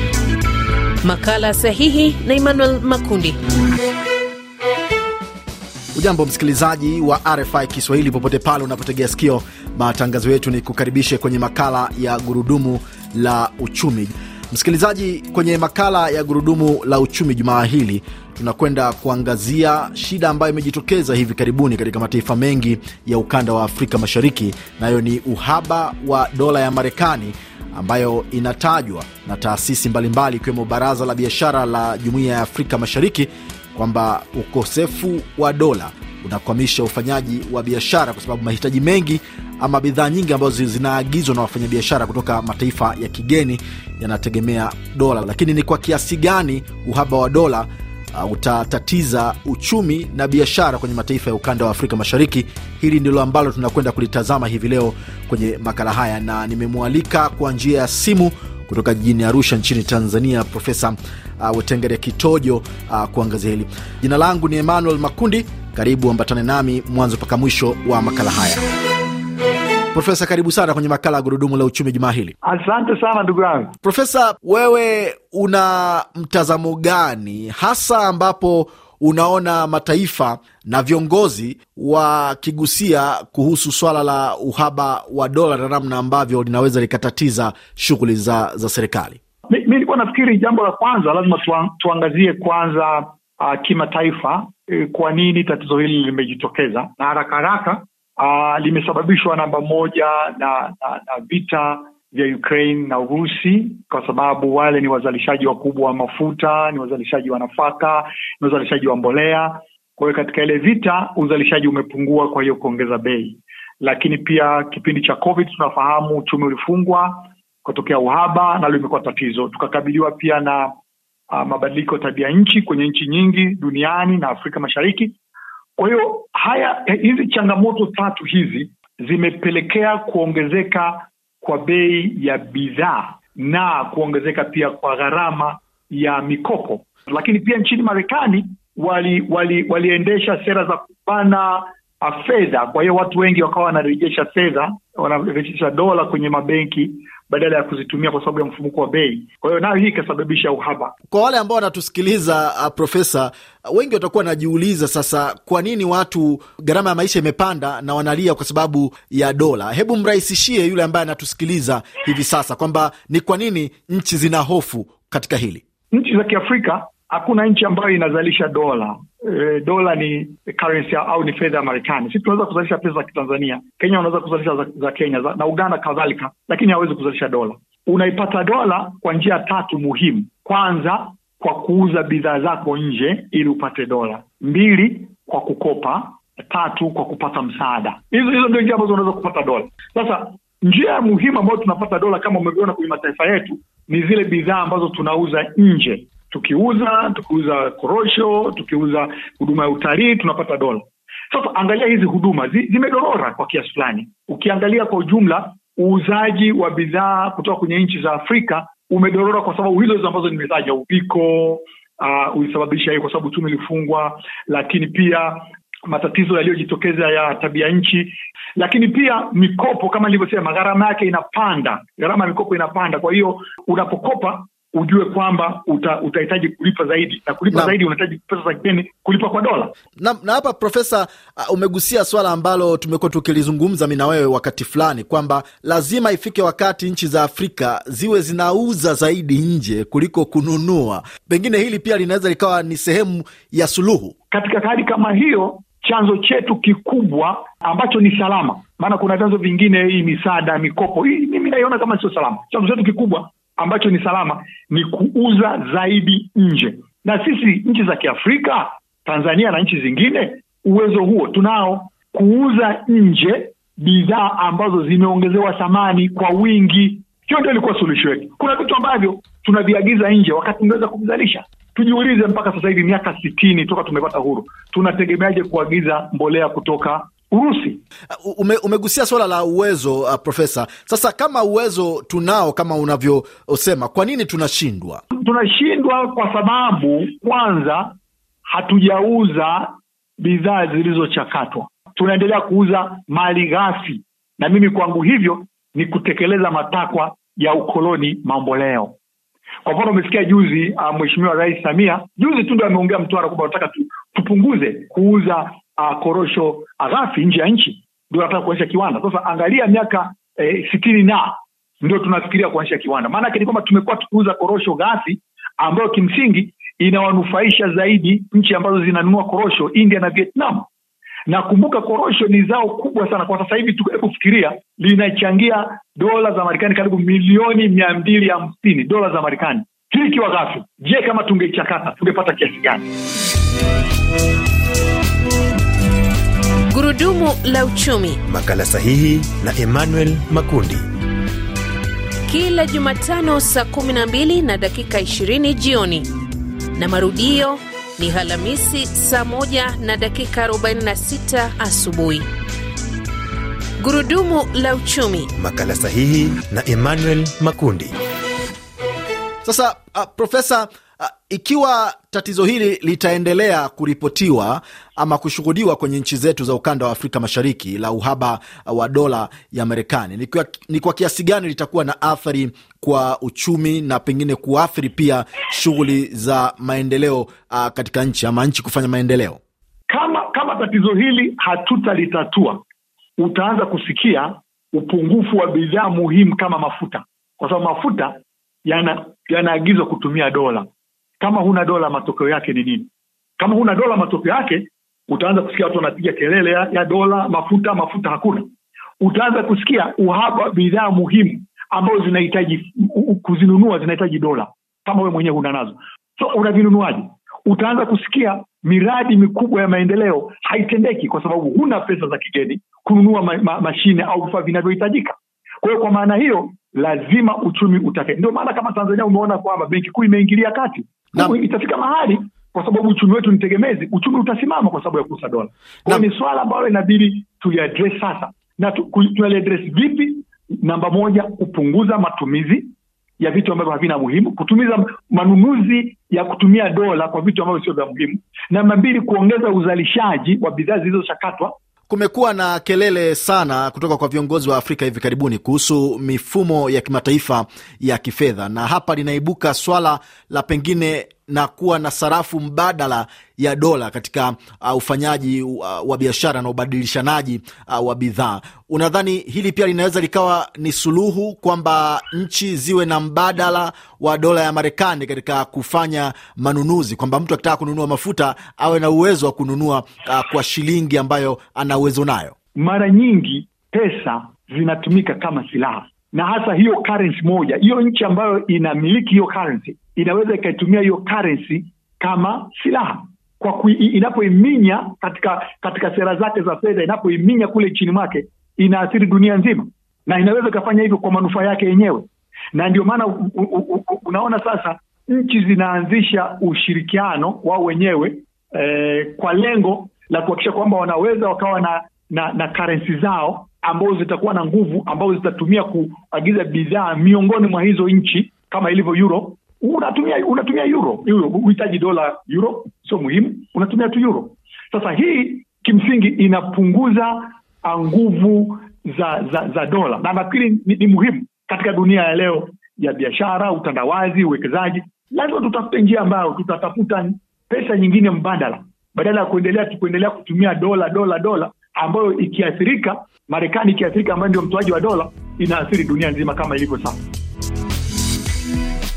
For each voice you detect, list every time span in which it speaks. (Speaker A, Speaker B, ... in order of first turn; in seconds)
Speaker A: 1.0-3.4, 336.7-338.2, 342.3-346.1, 346.7-352.2, 353.8-355.3
Speaker B: 5.9-68.6, 69.9-72.3, 73.8-89.2, 151.1-165.6, 230.0-244.1, 278.2-285.0, 359.4-379.4, 441.9-472.3
Speaker C: 72.4-73.7, 89.5-120.7, 121.3-125.2, 125.8-150.9, 165.9-229.7, 244.3-277.8, 285.1-298.9, 299.6-320.7, 321.3-332.9, 379.9-382.6, 383.2-388.1, 388.6-390.7, 391.2-392.9, 393.4-398.5, 399.0-441.5, 472.5-537.0
Speaker D: 338.2-340.8, 355.4-357.9